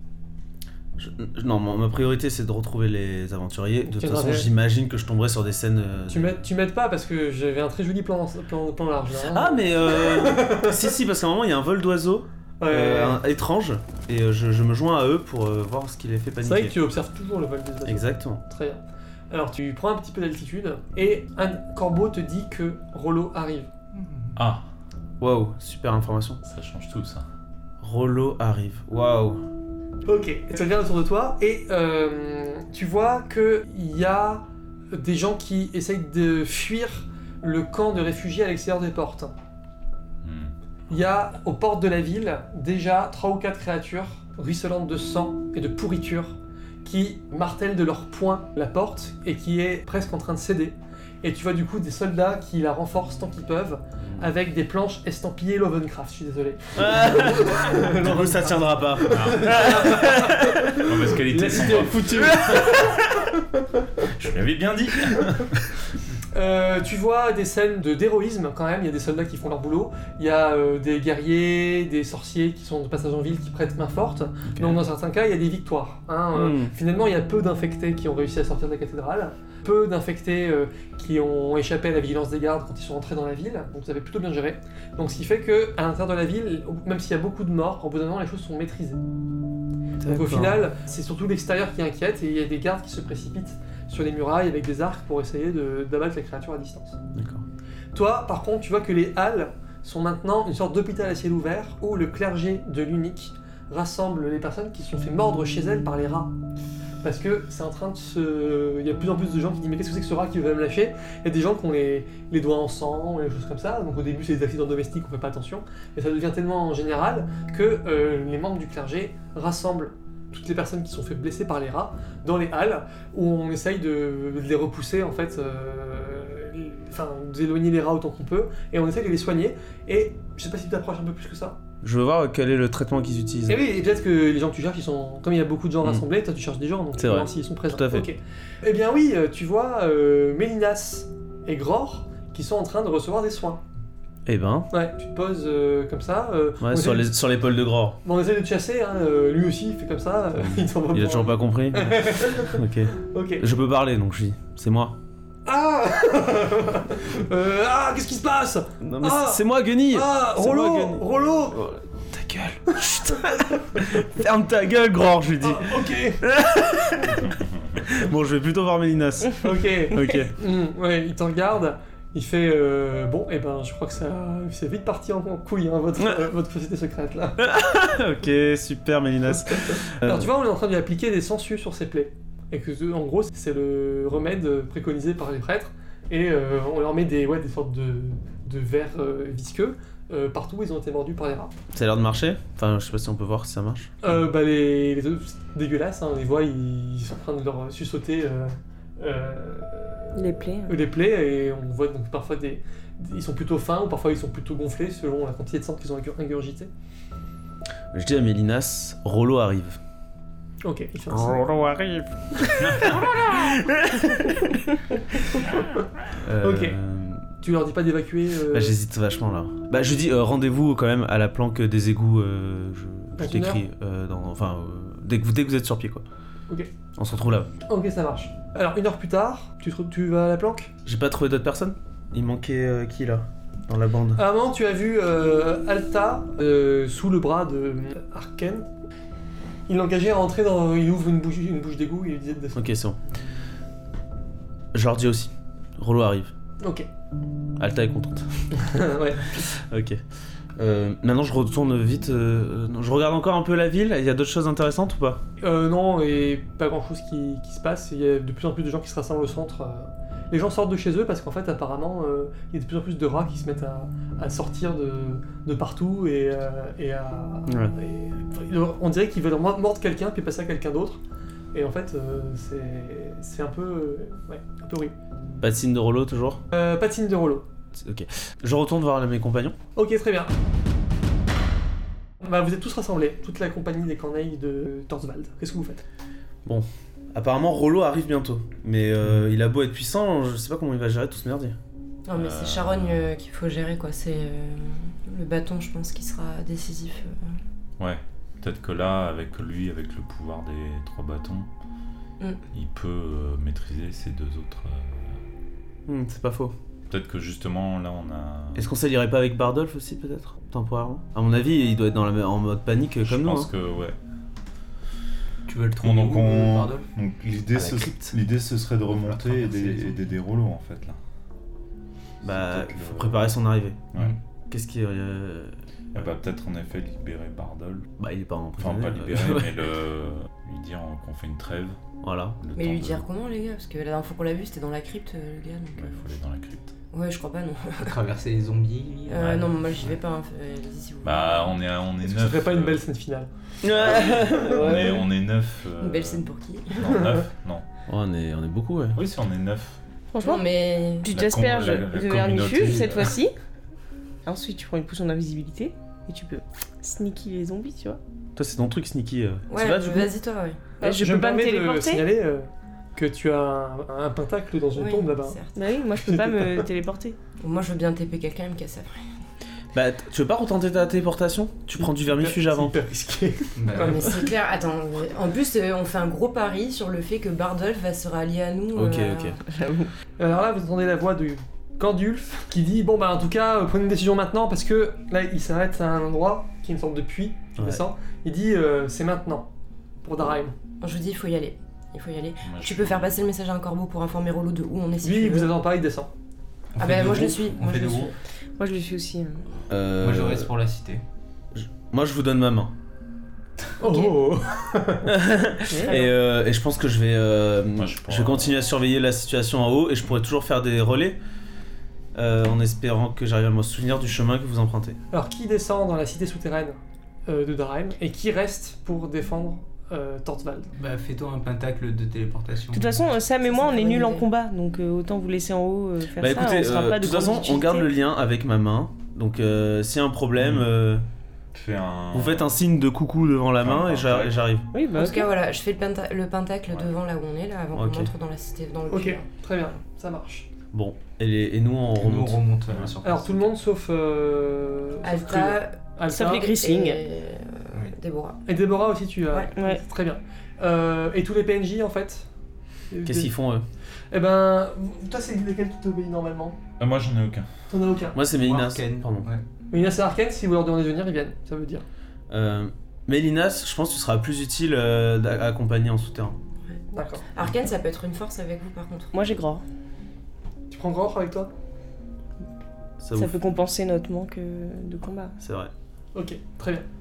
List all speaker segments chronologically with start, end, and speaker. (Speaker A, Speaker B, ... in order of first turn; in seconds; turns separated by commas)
Speaker A: 1.0-6.4, Speaker B: 3.9-4.5, Speaker B: 6.1-10.9, Speaker A: 9.2-16.8, Speaker B: 12.6-13.2, Speaker B: 16.4-23.7, Speaker A: 17.8-18.4, Speaker C: 24.1-24.3, Speaker D: 24.3-24.7, Speaker A: 25.2-26.4, Speaker D: 26.4-27.3, Speaker A: 27.8-29.4, Speaker B: 30.0-39.3, Speaker D: 40.2-40.5, Speaker B: 40.9-62.9, Speaker A: 56.8-60.6, Speaker D: 59.1-59.7, Speaker D: 60.7-63.0, Speaker D: 64.0-65.7, Speaker B: 66.3-89.0, Speaker A: 74.5-74.8, Speaker A: 76.3-76.8, Speaker A: 90.0-90.6, Speaker B: 90.0-97.0, Speaker A: 97.1-97.4, Speaker B: 97.9-106.3, Speaker B: 107.0-131.6, Speaker A: 131.8-133.6, Speaker B: 133.5-143.6, Speaker A: 137.0-138.1, Speaker A: 144.2-144.7, Speaker B: 144.7-147.1, Speaker A: 146.6-148.0, Speaker B: 148.0-152.6, Speaker A: 150.9-155.0, Speaker B: 153.1-153.4, Speaker B: 155.5-161.6, Speaker A: 158.8-167.2, Speaker B: 163.7-164.1, Speaker B: 165.4-166.2, Speaker D: 167.3-167.8, Speaker A: 167.8-170.3, Speaker B: 169.4-177.3, Speaker A: 177.4-180.3, Speaker B: 180.0-191.5, Speaker A: 191.7-194.0, Speaker B: 194.0-200.1, Speaker E: 200.1-200.8, Speaker B: 200.7-206.7, Speaker A: 207.9-209.8, Speaker B: 210.6-211.4, Speaker A: 211.1-214.5, Speaker A: 216.2-217.2, Speaker B: 216.4-216.7, Speaker B: 217.4-218.8, Speaker A: 218.5-226.0, Speaker B: 223.2-223.6, Speaker A: 227.0-227.5, Speaker B: 227.7-230.7, Speaker A: 230.8-234.2, Speaker B: 234.2-238.7, Speaker B: 239.7-242.7, Speaker A: 242.5-243.0, Speaker A: 244.7-246.3, Speaker B: 246.6-246.8, Speaker A: 247.6-248.3, Speaker B: 248.5-249.4, Speaker A: 249.4-250.0, Speaker A: 250.6-255.2, Speaker B: 255.4-271.0, Speaker A: 267.5-267.7, Speaker B: 271.5-274.9, Speaker A: 275.4-276.4, Speaker B: 276.5-277.4, Speaker A: 277.8-279.6, Speaker B: 279.8-280.3, Speaker B: 282.2-285.8, Speaker A: 286.4-291.6, Speaker F: 292.1-297.4, Speaker D: 292.1-293.1, Speaker D: 297.8-301.5, Speaker D: 302.5-305.2, Speaker A: 305.9-306.5, Speaker D: 306.9-308.7, Speaker A: 308.5-313.5, Speaker D: 313.0-314.0, Speaker C: 315.5-316.9, Speaker D: 315.8-321.0, Speaker C: 317.6-318.1, Speaker C: 319.0-320.1, Speaker D: 322.2-323.3, Speaker A: 322.2-323.8, Speaker A: 324.5-325.5, Speaker D: 325.9-327.9, Speaker A: 328.0-329.5, Speaker D: 328.6-331.8, Speaker A: 332.0-332.4, Speaker D: 332.4-333.0, Speaker F: 332.6-335.9, Speaker D: 335.7-336.7, Speaker F: 336.9-338.0, Speaker C: 337.8-339.9, Speaker F: 339.1-341.6, Speaker D: 341.0-342.8, Speaker B: 342.0-343.3, Speaker A: 343.6-345.0, Speaker D: 343.7-346.2, Speaker F: 345.8-347.0, Speaker D: 346.8-347.6, Speaker A: 347.9-349.0, Speaker D: 348.9-349.8, Speaker E: 350.1-353.3, Speaker F: 350.2-351.1, Speaker D: 351.1-353.1, Speaker E: 354.2-358.0, Speaker A: 358.3-360.1, Speaker F: 359.5-360.6, Speaker B: 360.8-365.4, Speaker E: 360.8-362.1, Speaker F: 364.8-365.6, Speaker E: 365.5-367.2, Speaker B: 365.9-366.7, Speaker F: 367.4-369.0, Speaker A: 369.7-372.8, Speaker B: 371.8-374.3, Speaker C: 373.6-373.9, Speaker F: 373.7-379.4, Speaker A: 378.7-379.4, Speaker E: 379.6-379.9, Speaker B: 380.2-389.5, Speaker A: 387.6-387.8, Speaker B: 390.0-390.5, Speaker F: 390.8-395.6, Speaker D: 392.4-393.2, Speaker B: 395.0-396.1, Speaker C: 396.8-398.1, Speaker F: 396.8-398.1, Speaker E: 398.6-399.5, Speaker A: 399.7-400.5, Speaker C: 400.0-401.0, Speaker A: 401.5-402.7, Speaker B: 403.8-405.1, Speaker F: 403.8-404.1, Speaker A: 405.1-411.2, Speaker E: 405.7-406.1, Speaker D: 407.7-408.6, Speaker A: 412.1-415.0, Speaker B: 415.1-420.7, Speaker C: 420.8-423.0, Speaker E: 422.7-427.9, Speaker F: 423.4-424.3, Speaker A: 426.2-431.0, Speaker D: 430.4-430.7, Speaker D: 431.5-432.6, Speaker A: 432.1-434.6, Speaker D: 433.6-434.4, Speaker E: 434.7-435.3, Speaker F: 434.9-439.3, Speaker A: 437.7-438.1, Speaker B: 438.9-440.5, Speaker A: 440.7-442.4, Speaker C: 441.9-443.4, Speaker D: 442.6-443.0, Speaker B: 443.0-446.5, Speaker F: 445.0-445.8, Speaker E: 446.1-447.0, Speaker F: 446.5-448.4, Speaker B: 448.4-452.3, Speaker E: 449.5-449.8, Speaker B: 452.9-453.3, Speaker A: 453.0-453.6, Speaker B: 454.1-456.6, Speaker D: 456.8-457.5, Speaker B: 457.7-458.2, Speaker A: 458.1-459.3, Speaker C: 458.3-459.4, Speaker B: 459.7-461.8, Speaker A: 462.3-466.4, Speaker F: 466.6-469.2, Speaker B: 466.9-467.2, Speaker E: 469.1-469.6, Speaker B: 470.7-471.5, Speaker A: 473.0-473.4, Speaker E: 473.1-475.3, Speaker A: 475.4-475.7, Speaker B: 476.1-476.8